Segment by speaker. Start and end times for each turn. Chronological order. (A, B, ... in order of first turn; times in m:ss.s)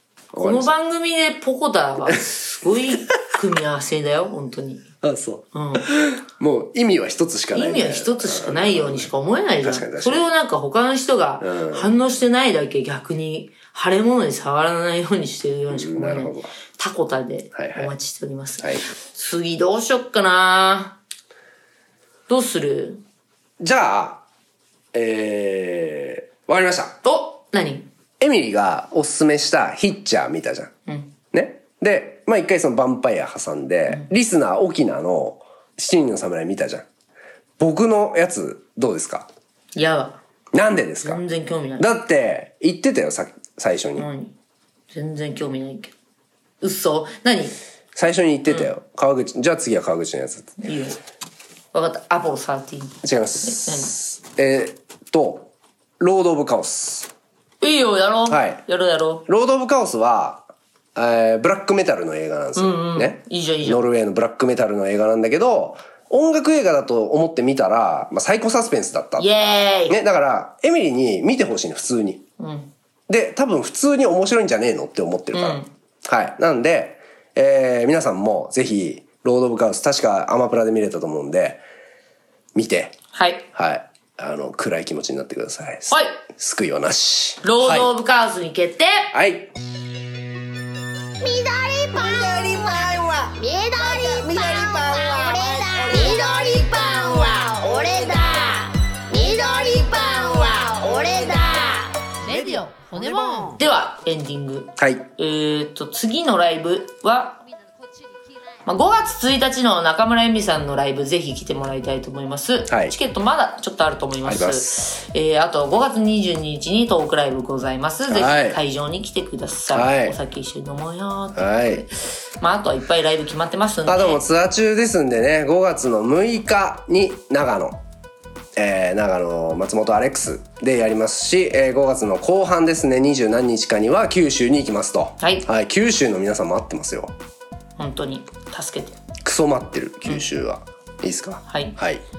0:00.3-0:00.7 A
0:00.4-0:04.9 B
0:05.0-0:09.1 A
0:05.5-0:05.9 B
0:07.5-0:21.0 B
0:09.6-0:10.2 A
0:11.4-0:11.9 A
0:15.7-0:16.5 A
0:17.5-0:17.9 A
0:22.3-0:23.0 B
0:23.6-0:24.2 A
0:24.9-0:27.0 A
0:27.0-0:27.9 B
0:28.2-0:30.7 A
0:31.3-0:36.9 A
0:37.6-0:39.3 A
0:39.7-0:40.2 B
0:40.5-0:41.2 A
0:41.0-0:41.9 B
0:41.8-0:44.1 A
0:44.0-0:44.3 B
0:44.9-0:45.9 B
0:46.6-0:47.6 B
0:47.9-0:50.6 A
0:50.6-0:51.0 B
0:51.7-0:53.9 B
0:53.0-0:57.1 A
0:57.6-0:59.2 B
0:58.3-0:58.6 A
0:59.3-1:09.3 A
1:02.6-1:03.8 B
1:09.2-1:10.0 B
1:09.9-1:12.2 A
1:12.4-1:12.7 B
1:13.1-1:21.6 A
1:15.3-1:15.7 B
1:22.6-1:23.0 A
1:23.1-1:23.4 B
1:23.5-1:27.9 A
1:25.9-1:26.2 B
1:27.4-1:29.1 B
1:29.1-1:29.5 A
1:31.2-1:42.5 C
1:32.1-1:33.2 A
1:34.0-1:36.3 A
1:42.2-1:42.7 A
1:42.3-1:43.1 D
1:43.1-1:43.5 C
1:43.5-1:47.4 B
1:44.8-1:45.0 A
1:47.4-1:48.9 D
1:48.6-2:04.2 B
1:52.7-1:52.9 A
1:54.2-1:54.8 A
1:58.1-1:58.6 A
1:59.7-2:00.2 A
2:01.4-2:01.8 A
2:03.9-2:07.8 A
2:08.6-2:17.2 A
2:15.2-2:15.4 B
2:17.8-2:19.0 B
2:19.2-2:22.0 A
2:21.5-2:21.8 B